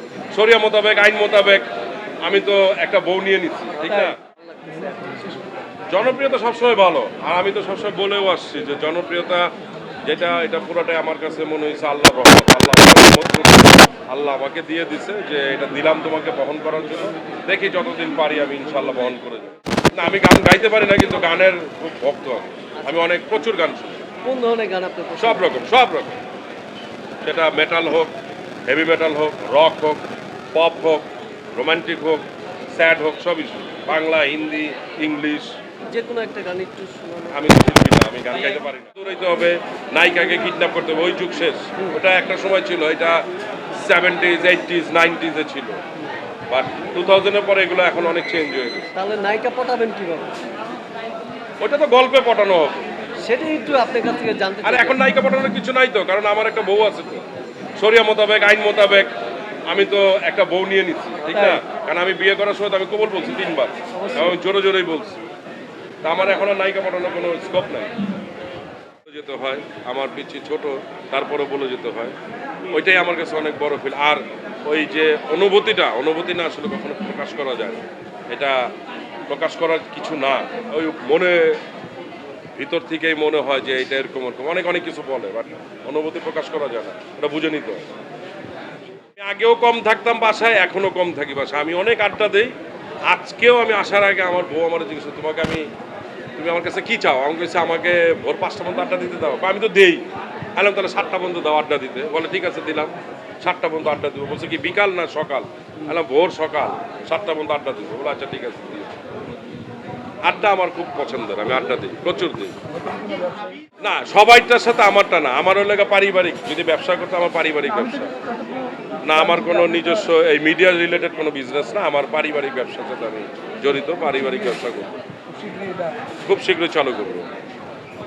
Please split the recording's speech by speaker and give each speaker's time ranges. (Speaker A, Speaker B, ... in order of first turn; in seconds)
Speaker A: 0.3-1.7, 2.2-4.2, 5.9-9.4, 10.0-24.0, 25.2-26.2, 27.2-28.1, 28.6-30.0, 30.5-35.5, 37.3-43.2, 43.7-45.8, 46.5-48.9, 51.6-52.9, 54.6-57.2, 57.8-59.1, 59.7-65.2, 66.0-67.9, 69.0-72.2, 72.7-78.7, 79.3-81.6, 82.5-87.8, 89.1-92.5, 93.1-95.7, 96.3-100.0, 100.5-109.0, 110.2-112.5, 113.8-118.1, 119.0-125.0, 126.2-127.3
Speaker B: 3.8-5.6, 22.8-23.1, 24.2-25.5, 35.9-37.5, 48.9-50.3, 53.2-55.0, 61.2-61.6, 63.9-64.4